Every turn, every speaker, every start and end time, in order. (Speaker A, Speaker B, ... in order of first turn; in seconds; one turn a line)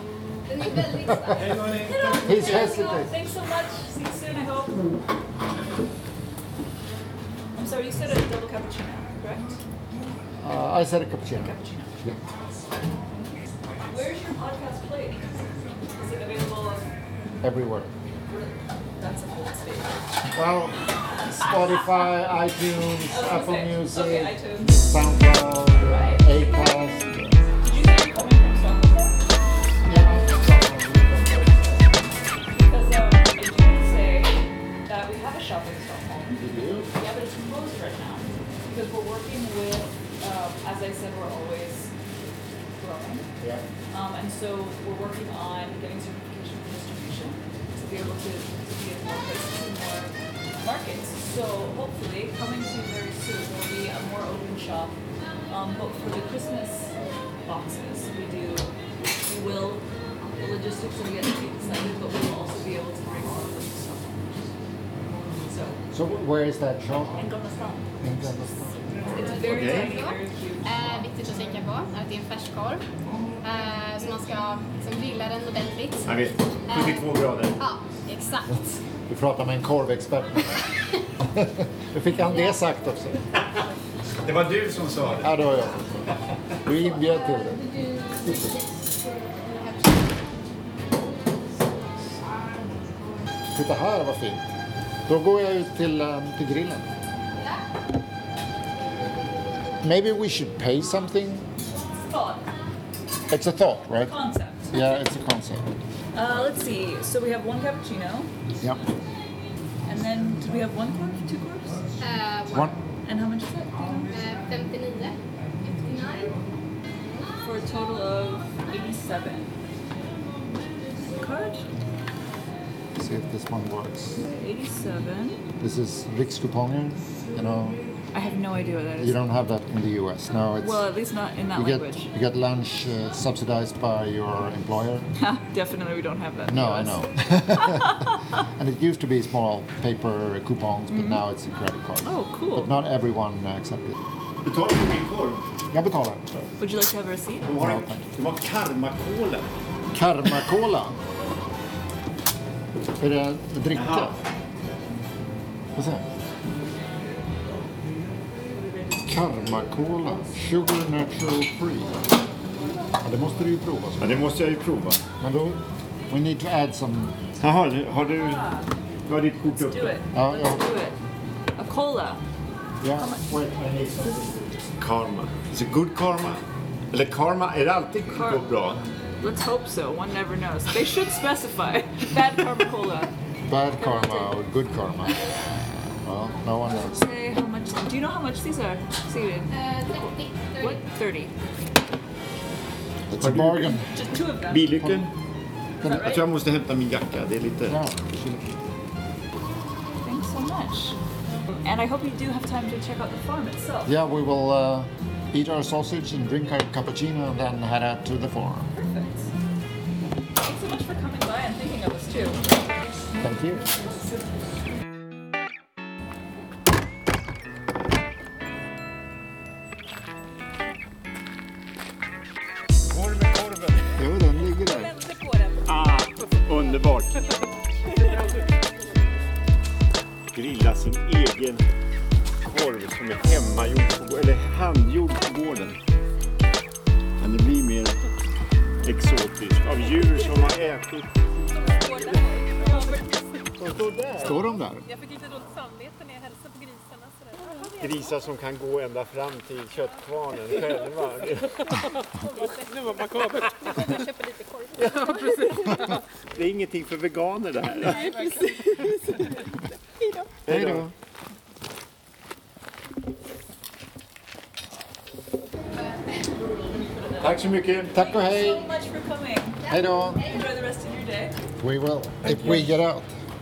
Speaker A: 0.4-1.9
Speaker B: 1.1-1.4
Speaker C: 1.3-2.7
Speaker D: 1.8-4.9
Speaker B: 2.2-3.1
Speaker D: 7.5-9.6
Speaker B: 10.4-12.2
Speaker D: 11.3-11.9
Speaker D: 13.8-16.9
Speaker B: 17.4-17.9
Speaker D: 18.3-20.1
Speaker B: 20.3-27.4
Speaker D: 21.2-22.1
Speaker D: 23.1-24.8
Speaker D: 25.8-26.3
Speaker D: 27.6-29.2
Speaker B: 29.8-32.0
Speaker D: 32.5-42.0
Speaker B: 36.4-36.9
Speaker D: 42.8-43.3
Speaker B: 43.4-43.6
Speaker D: 43.9-55.0
Speaker D: 55.5-59.8
Speaker D: 60.4-64.4
Speaker D: 65.4-65.8
Speaker B: 65.9-67.2
Speaker D: 67.1-67.9
Speaker B: 68.0-69.4
Speaker D: 69.1-70.7
Speaker A: 69.1-72.8
Speaker C: 69.4-70.0
Speaker A: 73.4-78.8
Speaker C: 76.0-77.6
Speaker B: 79.1-80.7
Speaker B: 81.2-83.2
Speaker A: 82.2-82.5
Speaker C: 84.2-85.4
Speaker B: 85.2-87.6
Speaker A: 86.6-93.5
Speaker B: 93.5-94.5
Speaker B: 95.1-96.9
Speaker A: 97.3-97.7
Speaker B: 99.8-101.5
Speaker D: 101.8-102.5
Speaker B: 103.3-104.1
Speaker D: 104.0-105.0
Speaker B: 104.7-105.7
Speaker D: 106.1-108.3
Speaker B: 106.3-106.5
Speaker D: 109.8-111.8
Speaker A: 112.0-112.8
Speaker B: 112.5-112.8
Speaker D: 113.0-114.1
Speaker A: 114.1-115.2
Speaker A: 115.7-116.4
Speaker A: 117.0-117.3
Speaker D: 117.4-119.5
Speaker D: 121.0-121.7
Speaker B: 123.0-124.2
Speaker D: 124.2-125.4
Speaker B: 125.6-127.8
Speaker D: 128.1-129.2
Speaker B: 129.0-130.8
Speaker D: 130.6-132.1
Speaker B: 131.5-135.1
Speaker D: 135.2-138.4
Speaker B: 136.5-144.0
Speaker D: 140.9-141.2
Speaker D: 142.0-142.7
Speaker C: 144.4-145.4
Speaker B: 145.7-146.2
Speaker D: 146.6-147.5
Speaker C: 147.4-149.5
Speaker B: 147.6-148.0
Speaker B: 149.9-151.0
Speaker B: 153.0-154.2
Speaker C: 153.7-154.2
Speaker B: 155.8-156.0
Speaker B: 159.0-162.1
Speaker D: 162.6-162.9
Speaker B: 163.0-164.2
Speaker C: 164.0-165.0
Speaker B: 165.2-167.2
Speaker C: 167.4-168.4
Speaker D: 168.1-168.7
Speaker C: 169.1-170.0
Speaker D: 169.5-171.0
Speaker B: 170.1-170.7
Speaker D: 171.6-172.2
Speaker B: 172.8-174.5
Speaker D: 172.9-173.3
Speaker C: 174.8-178.9
Speaker D: 178.1-178.4
Speaker D: 179.2-183.1
Speaker B: 183.5-185.2
Speaker D: 183.8-184.3
Speaker B: 186.0-187.0
Speaker D: 186.7-191.3
Speaker A: 189.5-190.8
Speaker B: 193.1-193.9
Speaker C: 193.2-193.8
Speaker D: 193.9-194.7
Speaker C: 194.5-195.1
Speaker B: 194.8-195.1
Speaker D: 195.8-196.2
Speaker C: 195.8-197.8
Speaker B: 197.7-198.5
Speaker D: 200.0-201.0
Speaker D: 201.6-203.9
Speaker B: 203.8-208.7
Speaker D: 208.7-209.3
Speaker D: 210.4-212.5
Speaker B: 213.2-213.7
Speaker C: 222.9-223.9
Speaker B: 223.9-224.9
Speaker E: 224.5-228.5
Speaker C: 225.6-227.2
Speaker C: 230.3-231.6
Speaker C: 232.4-235.8
Speaker C: 237.2-238.0
Speaker C: 238.8-241.1
Speaker E: 240.0-240.4
Speaker E: 241.5-243.5
Speaker D: 241.9-243.0
Speaker C: 243.6-244.4
Speaker B: 244.2-244.8
Speaker E: 244.3-248.1
Speaker C: 247.8-251.9
Speaker E: 250.5-250.9
Speaker E: 251.6-256.0
Speaker C: 253.0-253.9
Speaker C: 254.8-258.3
Speaker E: 257.8-259.4
Speaker E: 260.0-260.3
Speaker C: 260.4-260.9
Speaker B: 260.5-260.9
Speaker A: 265.8-266.4
Speaker D: 266.9-271.4
Speaker B: 267.2-268.7
Speaker C: 267.2-267.6
Speaker A: 269.6-270.4
Speaker B: 269.7-270.2
Speaker B: 271.6-273.1
Speaker C: 272.2-272.7